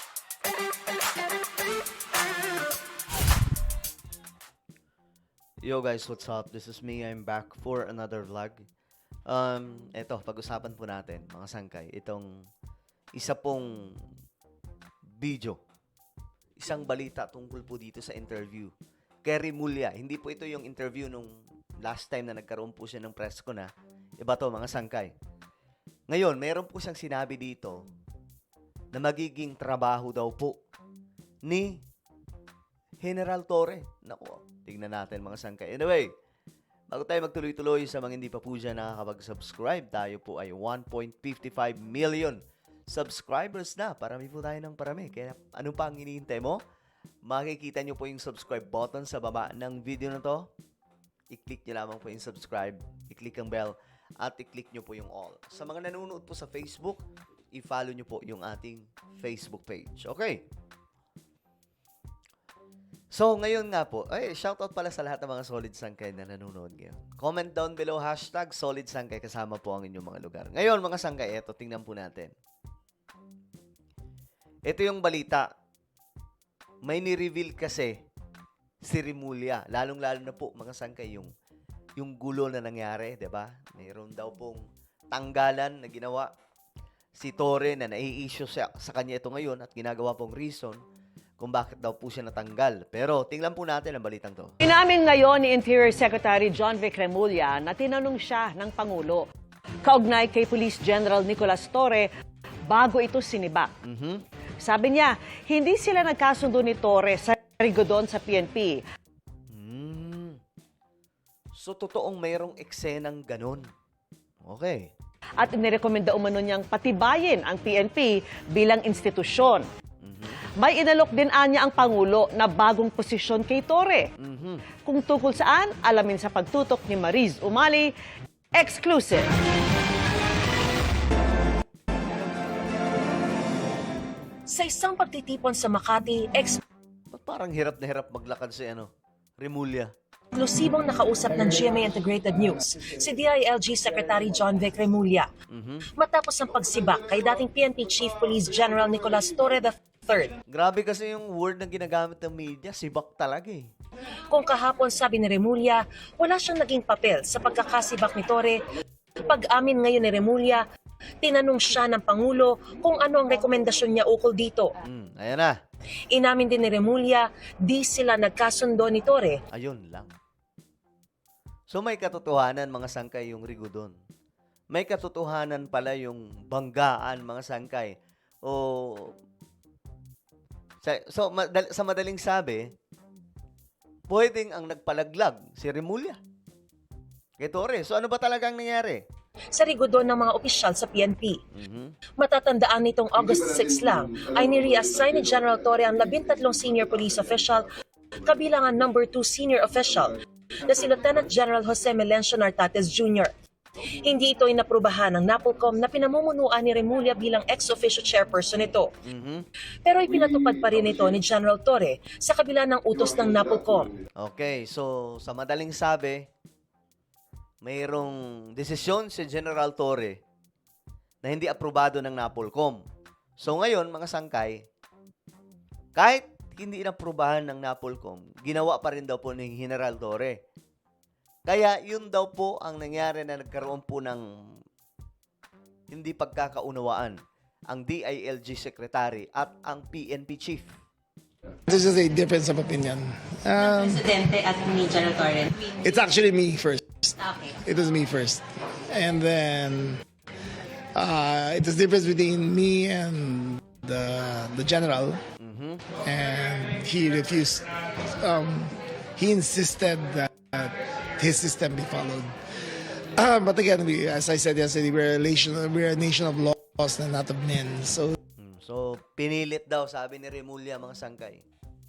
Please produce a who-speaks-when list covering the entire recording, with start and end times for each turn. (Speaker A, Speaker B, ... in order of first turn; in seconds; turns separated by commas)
Speaker A: 5.6-8.7, Speaker A: 9.3-12.5, Speaker A: 13.2-13.9, Speaker A: 15.2-15.6, Speaker A: 16.6-18.7, Speaker A: 19.2-25.1, Speaker A: 26.1-27.8, Speaker A: 28.9-30.6, Speaker A: 31.5-31.8, Speaker A: 33.0-36.1, Speaker A: 36.9-46.6, Speaker A: 47.2-50.5, Speaker A: 51.3-60.5, Speaker A: 63.1-72.3, Speaker A: 74.7-75.5, Speaker A: 76.8-78.0, Speaker A: 78.8-81.3, Speaker A: 82.0-86.3, Speaker A: 87.2-90.8, Speaker A: 91.4-94.5, Speaker B: 94.6-99.3, Speaker B: 99.8-102.1, Speaker B: 102.7-103.7, Speaker A: 103.8-104.2, Speaker B: 104.6-108.8, Speaker A: 109.5-110.4, Speaker A: 111.6-113.7, Speaker A: 114.5-114.9, Speaker B: 115.4-119.7, Speaker A: 120.0-120.4, Speaker B: 120.6-124.1, Speaker A: 124.2-124.7, Speaker B: 124.8-127.9, Speaker B: 128.6-129.3, Speaker C: 134.5-136.6, Speaker A: 137.1-139.9, Speaker C: 140.3-145.3, Speaker A: 145.5-145.9, Speaker C: 146.0-150.3, Speaker A: 150.5-153.7, Speaker C: 154.3-158.6, Speaker C: 159.2-160.6, Speaker C: 161.2-164.8, Speaker A: 164.8-165.6, Speaker C: 166.1-169.4, Speaker A: 169.5-170.1, Speaker A: 171.7-174.0, Speaker A: 174.7-179.2, Speaker A: 180.8-182.7, Speaker A: 184.1-186.2, Speaker A: 187.4-189.0, Speaker C: 189.6-191.4, Speaker A: 191.5-192.0, Speaker C: 192.2-197.7, Speaker C: 198.2-200.1, Speaker C: 200.7-203.3, Speaker C: 203.9-208.9, Speaker A: 209.1-209.5, Speaker C: 209.9-213.9, Speaker A: 214.2-216.3, Speaker A: 217.6-220.2, Speaker A: 221.2-222.8, Speaker A: 223.4-224.6, Speaker A: 226.0-230.4, Speaker A: 231.5-234.6, Speaker A: 235.9-240.7, Speaker D: 241.7-244.1, Speaker E: 243.6-245.8, Speaker D: 245.7-250.0, Speaker E: 247.2-247.6, Speaker D: 250.9-255.2, Speaker A: 255.4-255.8, Speaker D: 256.0-262.3, Speaker D: 263.1-268.2, Speaker A: 268.4-271.4